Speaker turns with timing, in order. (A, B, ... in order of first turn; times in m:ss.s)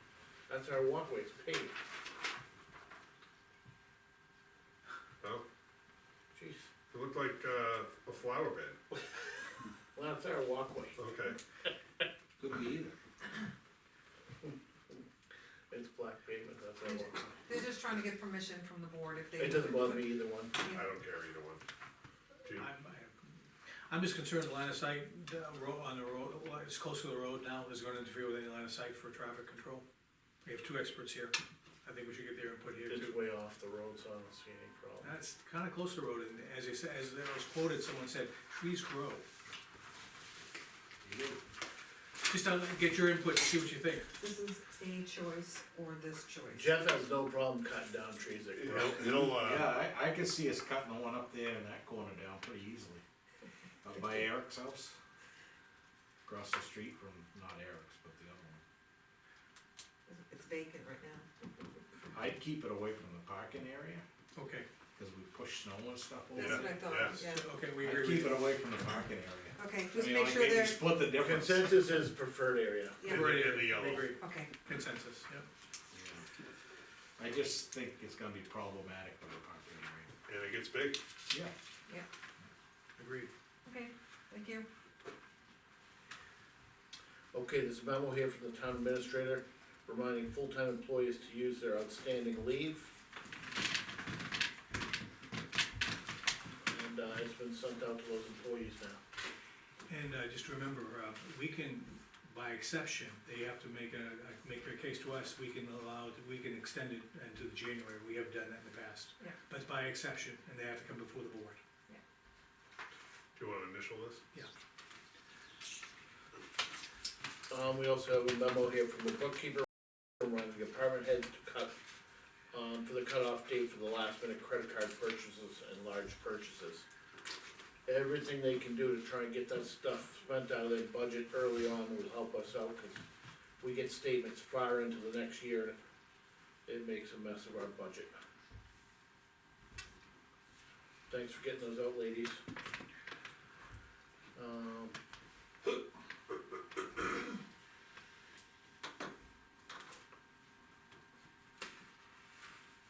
0:00.5-0:01.7 A
0:06.3-0:06.7 A
0:06.9-0:09.1 B
0:10.0-0:11.0 A
0:11.0-0:11.4 B
0:12.4-0:13.0 C
0:15.7-0:17.4 A
0:17.4-0:20.8 D
0:19.4-0:20.6 A
0:20.6-0:21.6 B
0:22.5-0:29.8 E
0:30.4-0:33.1 E
0:32.9-0:35.1 A
0:35.0-0:39.3 E
0:41.0-0:41.4 C
0:42.3-0:44.1 E
0:44.2-0:46.9 D
0:46.5-0:49.4 A
0:48.6-0:49.8 B
0:49.3-0:53.0 C
0:53.8-0:55.0 C
0:56.2-0:58.6 C
1:00.1-1:01.3 D
1:02.1-1:04.1 C
1:04.3-1:04.7 E
1:05.0-1:06.9 C
1:06.4-1:07.5 D
1:06.4-1:07.2 B
1:07.1-1:08.4 E
1:07.8-1:11.9 C
1:09.6-1:11.0 D
1:11.1-1:13.0 A
1:13.0-1:13.4 D
1:13.0-1:14.2 B
1:13.0-1:15.4 E
1:14.1-1:14.6 D
1:15.9-1:16.2 C
1:17.2-1:20.1 C
1:20.2-1:21.0 B
1:23.0-1:23.3 E
1:23.6-1:24.7 D
1:27.3-1:32.9 A
1:36.7-1:39.0 A
1:39.9-1:51.6 E
1:53.3-1:54.2 B
1:57.5-2:01.7 A
2:02.5-2:06.9 A
2:07.9-2:13.0 A
2:13.6-2:15.8 A
2:16.7-2:18.1 A
2:21.1-2:22.4 A
2:24.3-2:24.9 A